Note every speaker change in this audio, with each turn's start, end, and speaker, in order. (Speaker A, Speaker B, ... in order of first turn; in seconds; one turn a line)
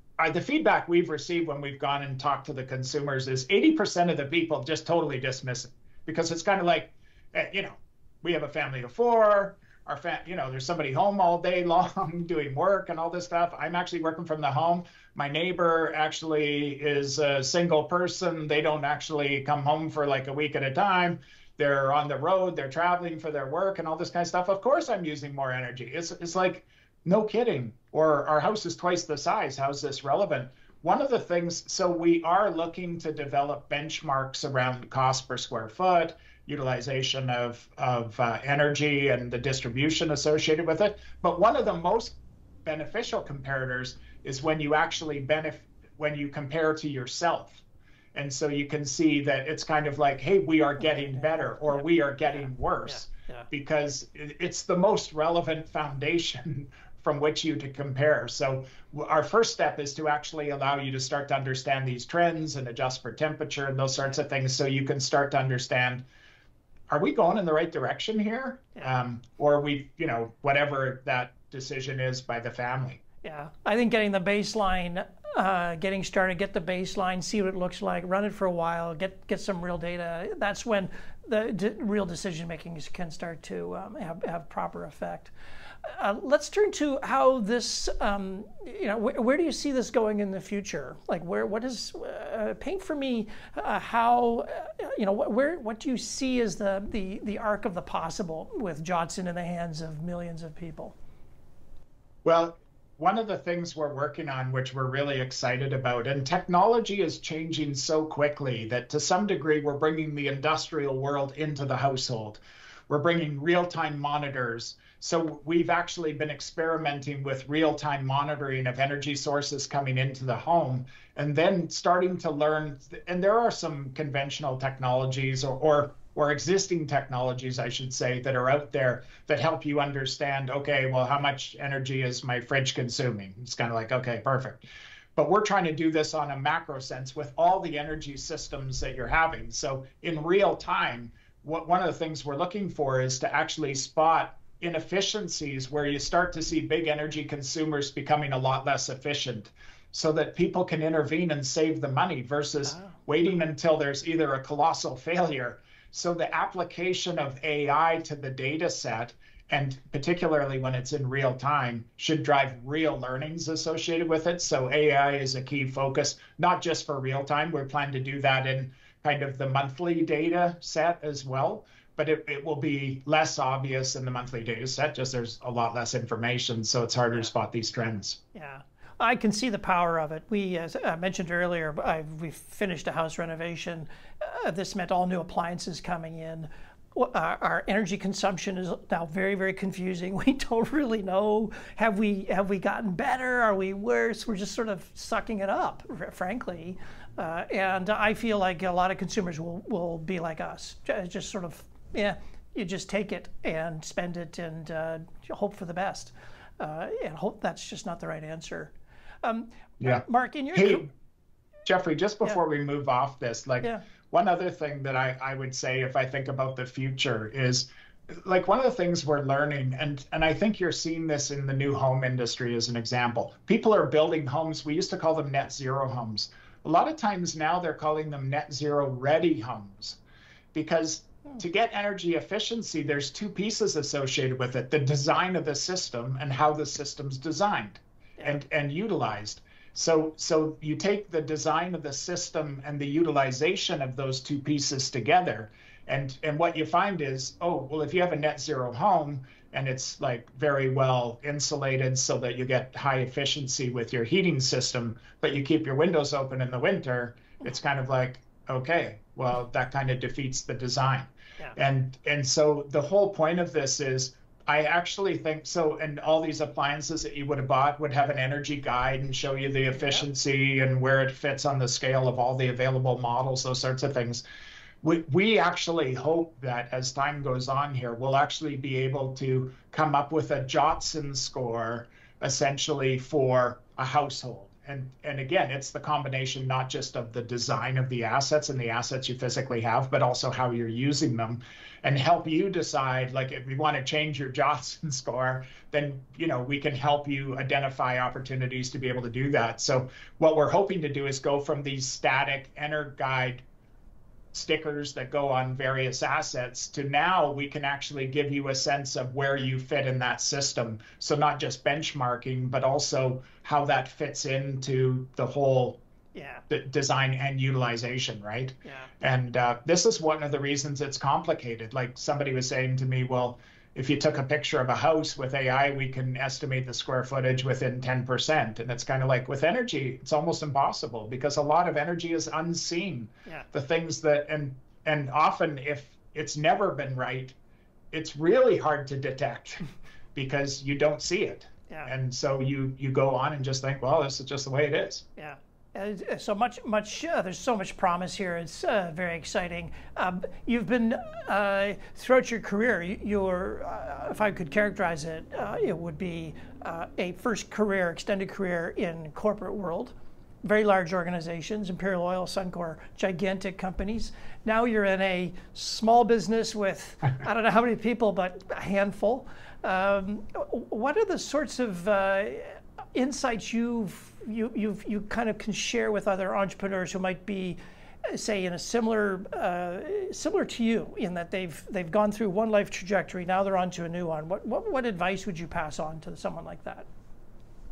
Speaker A: 0.2-47.6
Speaker A: 48.1-66.0
Speaker B: 51.7-53.5
Speaker A: 66.9-73.0
Speaker B: 73.2-85.3
Speaker B: 85.8-101.0
Speaker A: 102.2-178.2
Speaker B: 178.3-208.7
Speaker B: 209.2-210.8
Speaker A: 209.8-210.9
Speaker A: 211.6-230.0
Speaker A: 230.5-274.2
Speaker B: 269.8-270.0
Speaker A: 274.8-303.4
Speaker A: 304.3-315.8
Speaker B: 316.1-316.4
Speaker A: 316.5-337.4
Speaker B: 318.6-318.9
Speaker A: 337.9-345.0
Speaker B: 345.2-386.9